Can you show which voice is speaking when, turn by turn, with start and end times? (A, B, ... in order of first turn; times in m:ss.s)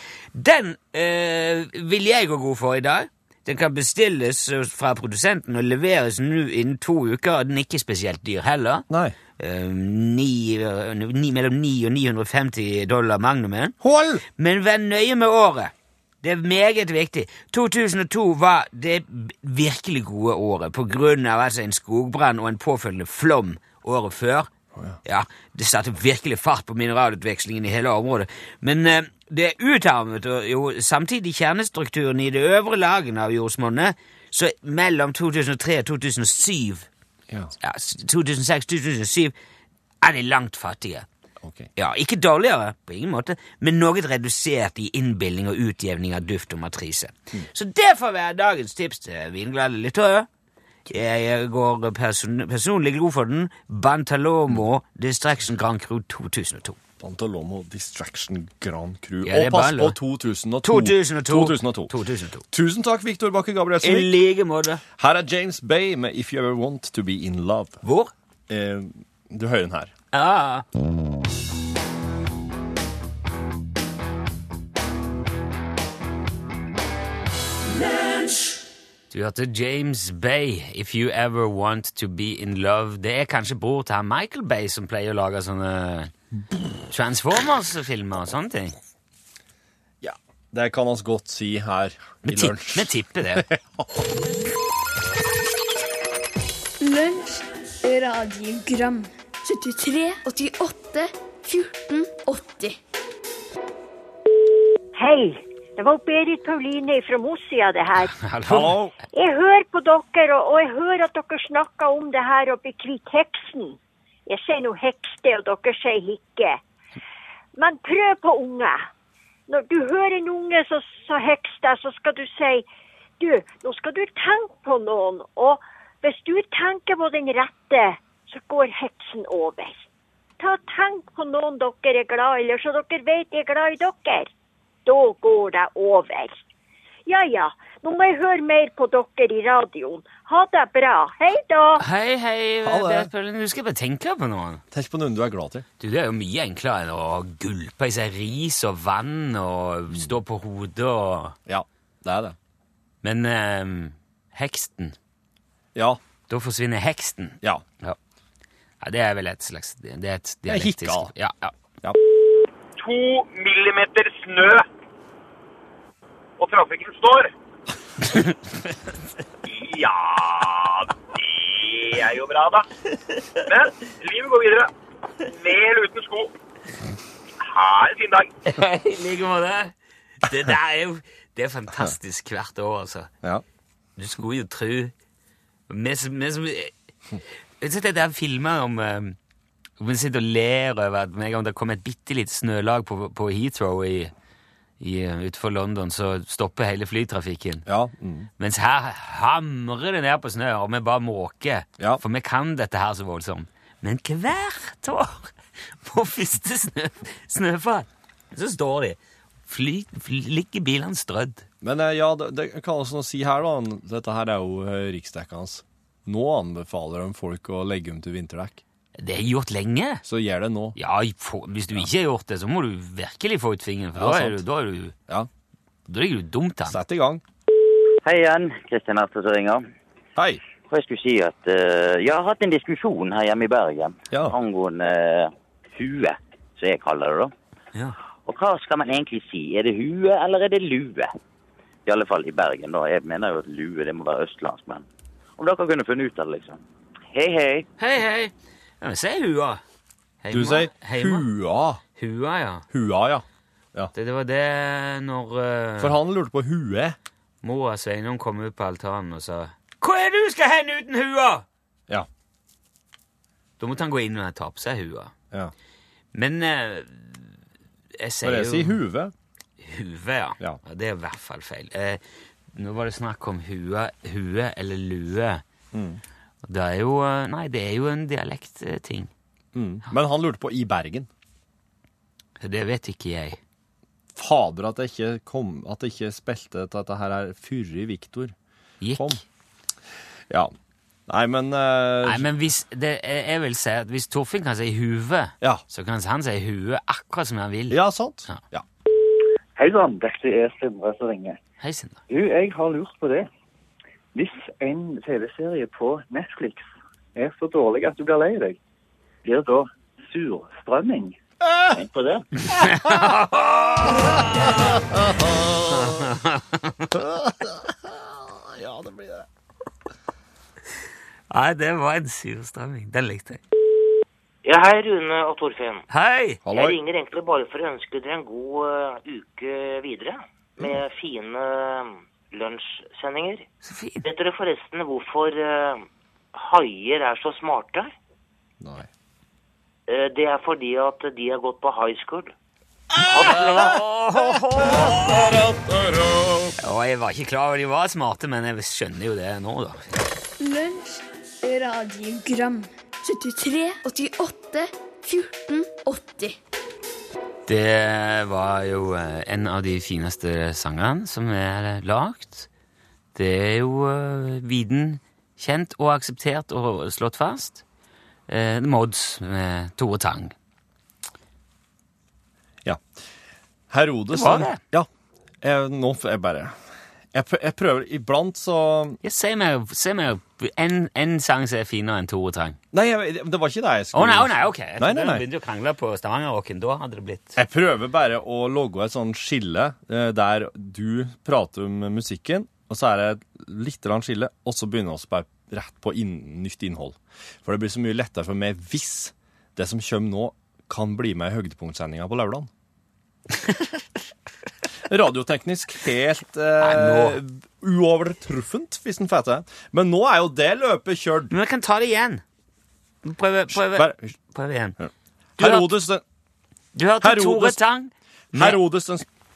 0:00.4-0:08.8 A
0:08.9-0:09.2 B
0:09.4-0:13.8 A
0:13.8-0:14.2 B
0:14.4-0:24.5 A
0:25.0-0:36.9 A
0:37.3-0:37.5 B
0:37.6-0:39.3 A
0:40.0-0:41.1 A
0:41.4-0:41.7 B
0:41.8-0:50.3 A
0:50.9-0:56.8 A
0:57.0-1:02.0 B
0:59.2-1:00.0 A
1:00.6-1:02.4 A
1:02.5-1:04.2 B
1:03.8-1:04.8 A
1:05.0-1:07.8 B
1:07.8-1:08.1 A
1:08.5-1:09.9 B
1:10.1-1:10.6 A
1:19.1-1:26.1 A
1:26.9-1:28.8 A
1:30.0-1:34.1 B
1:32.2-1:33.5 A
1:36.8-1:42.8 C
1:45.0-1:48.2 D
1:48.1-1:48.9 A
1:48.5-1:48.9 B
1:49.1-1:56.6 D
1:57.6-1:58.9 D
1:59.5-2:02.7 D
2:03.2-2:09.9 D
2:10.4-2:14.3 D
2:14.9-2:16.4 D
2:17.1-2:21.8 D
2:21.8-2:24.6 A
2:22.6-2:23.1 B
2:24.7-2:25.7 B
2:25.8-2:31.4 A
2:31.5-2:32.4 B
2:33.0-2:35.0 A
2:36.3-2:38.0 A
2:38.8-2:41.5 A
2:40.5-2:41.1 B
2:42.8-2:44.6 E
2:46.4-2:47.3 E
2:49.5-2:52.6 E
2:53.4-2:54.7 E
2:55.2-2:56.3 E
2:57.4-2:58.3 E
2:58.5-3:03.1 A
3:04.0-3:04.9 A
3:05.7-3:06.7 A
3:07.6-3:09.2 A
3:09.8-3:14.1 A
3:14.8-3:17.7 A
3:17.7-3:18.3 B
3:18.4-3:31.5 A
3:31.6-3:38.6 B
3:39.0-3:40.0 A
3:40.0-3:40.8 B
3:40.8-3:45.0 A
3:44.0-3:44.4 B
3:45.9-3:46.8 A
3:46.7-3:47.2 B
3:48.0-3:49.6 F
3:50.2-3:50.4 B
3:50.7-3:57.3 F
3:54.1-3:54.4 B
3:58.3-4:01.1 F
4:01.9-4:04.8 F
4:05.4-4:06.6 F
4:07.1-4:07.7 F
4:07.8-4:09.6 A
4:10.2-4:11.3 A
4:10.3-4:11.8 B
4:12.0-4:12.7 A
4:12.7-4:13.9 B
4:14.0-4:16.0 A
4:15.8-4:17.0 B
4:17.4-4:21.4 A
4:23.6-4:25.1 A
4:26.1-4:27.3 A
4:28.0-4:28.8 A
4:28.2-4:29.1 B
4:29.6-4:32.0 A
4:32.5-4:35.4 A
4:35.7-4:36.0 B
4:36.4-4:39.1 A
4:39.5-4:41.1 B
4:42.4-4:43.4 A
4:44.2-4:48.4 B
4:48.8-4:49.2 A
4:49.0-4:49.2 B
4:51.1-4:52.3 B
4:52.0-4:58.4 A
4:57.7-4:58.6 B
4:59.6-5:01.4 G
5:01.6-5:02.0 A
5:02.1-5:03.3 G
5:04.1-5:08.6 G
5:09.2-5:11.2 G
5:11.7-5:12.3 G
5:12.5-5:14.8 A
5:15.5-5:16.9 A
5:17.0-5:19.2 B
5:21.3-5:23.4 A
5:24.4-5:25.8 H
5:25.9-5:26.4 A
5:26.4-5:26.8 B
5:26.5-5:33.5 H
5:33.6-5:34.1 A
5:34.0-5:37.9 H
5:38.6-5:38.9 B
5:39.9-5:42.3 H
5:43.0-5:43.8 H
5:43.3-5:45.2 A
5:46.6-5:49.9 A
5:50.4-5:56.4 C
5:57.5-6:02.5 A
6:03.2-6:07.6 A
6:08.3-6:10.3 A
6:13.7-6:14.9 B
6:14.1-6:14.6 A
6:15.4-6:16.6 B
6:17.1-6:19.0 B
6:19.0-6:22.6 A
6:22.7-6:25.2 B
6:23.9-6:27.4 A
6:27.4-6:42.5 B
6:44.9-6:51.3 B
6:46.6-6:47.2 A
6:51.3-6:52.2 A
6:53.0-6:54.8 A
6:53.5-6:54.2 B
6:54.8-6:56.0 B
6:55.4-6:55.7 A
6:56.8-6:58.6 A
6:57.0-6:57.6 B
6:58.3-6:59.1 B